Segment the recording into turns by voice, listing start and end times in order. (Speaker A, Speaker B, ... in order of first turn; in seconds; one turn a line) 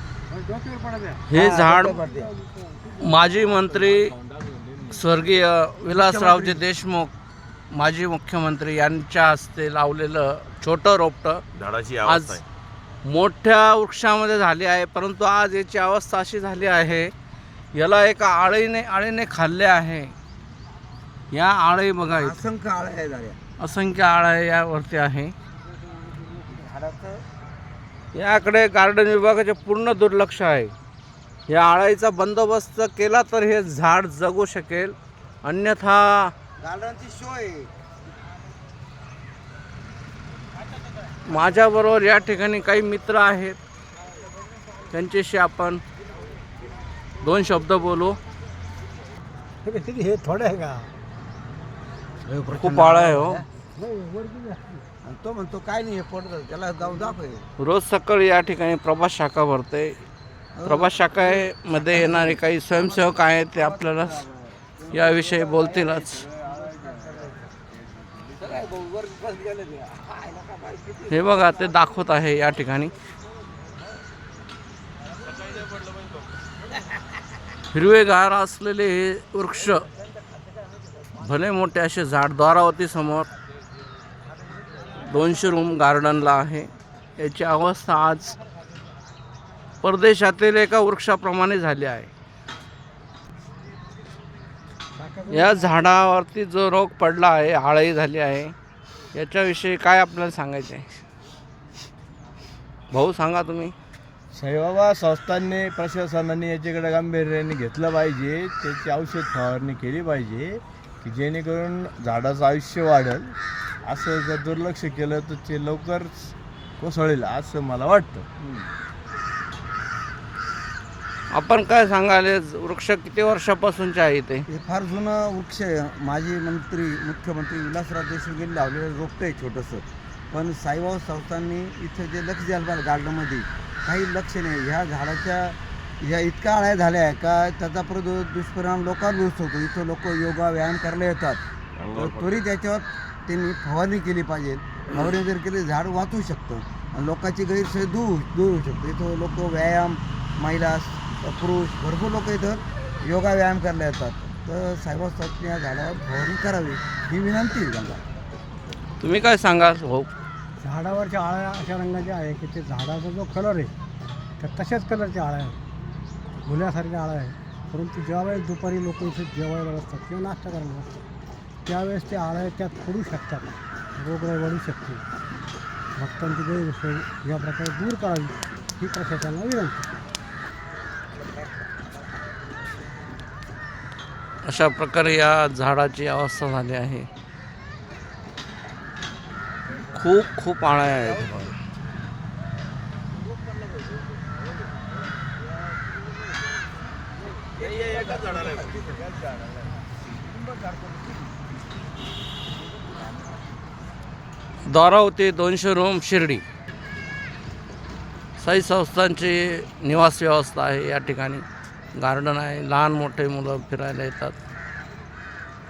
Speaker A: 0.3-3.0
Speaker B: 1.3-2.0
Speaker C: 1.3-2.3
Speaker B: 3.0-4.2
Speaker D: 3.9-4.8
Speaker B: 4.9-7.1
Speaker C: 5.9-6.6
Speaker B: 7.7-11.4
Speaker D: 11.5-12.4
Speaker B: 12.0-12.4
Speaker B: 13.0-17.1
Speaker B: 17.7-20.1
Speaker B: 21.3-22.4
Speaker C: 22.1-23.4
Speaker B: 23.6-25.3
Speaker C: 26.1-27.2
Speaker B: 28.1-30.7
Speaker B: 31.5-36.3
Speaker C: 36.6-37.7
Speaker B: 41.3-43.6
Speaker B: 44.9-45.8
Speaker B: 47.2-48.2
Speaker A: 49.6-50.9
Speaker C: 52.3-53.5
Speaker B: 52.5-53.4
Speaker A: 53.8-54.8
Speaker C: 55.0-57.5
Speaker B: 57.6-60.0
Speaker C: 60.5-67.5
Speaker B: 60.6-64.2
Speaker B: 64.9-66.3
Speaker E: 66.0-67.2
Speaker E: 67.7-68.3
Speaker C: 68.4-71.2
Speaker B: 71.1-72.9
Speaker B: 77.7-79.9
Speaker B: 81.2-83.3
Speaker B: 85.0-88.4
Speaker B: 89.8-92.1
Speaker A: 95.0-95.9
Speaker B: 95.3-98.5
Speaker B: 99.1-100.9
Speaker B: 102.9-103.7
Speaker E: 104.3-118.3
Speaker B: 121.3-124.5
Speaker C: 124.5-141.4
Speaker D: 141.8-142.3
Speaker C: 141.9-158.0
Speaker B: 159.0-160.1
Speaker A: 160.6-163.7
Speaker A: 164.4-165.6
Speaker A: 166.4-171.0
Speaker A: 171.7-175.0
Speaker A: 176.0-179.9
Speaker B: 184.4-187.1
Speaker B: 189.9-191.5
Speaker D: 197.8-198.8
Speaker C: 197.9-198.8
Speaker B: 204.7-206.4
Speaker B: 208.4-214.4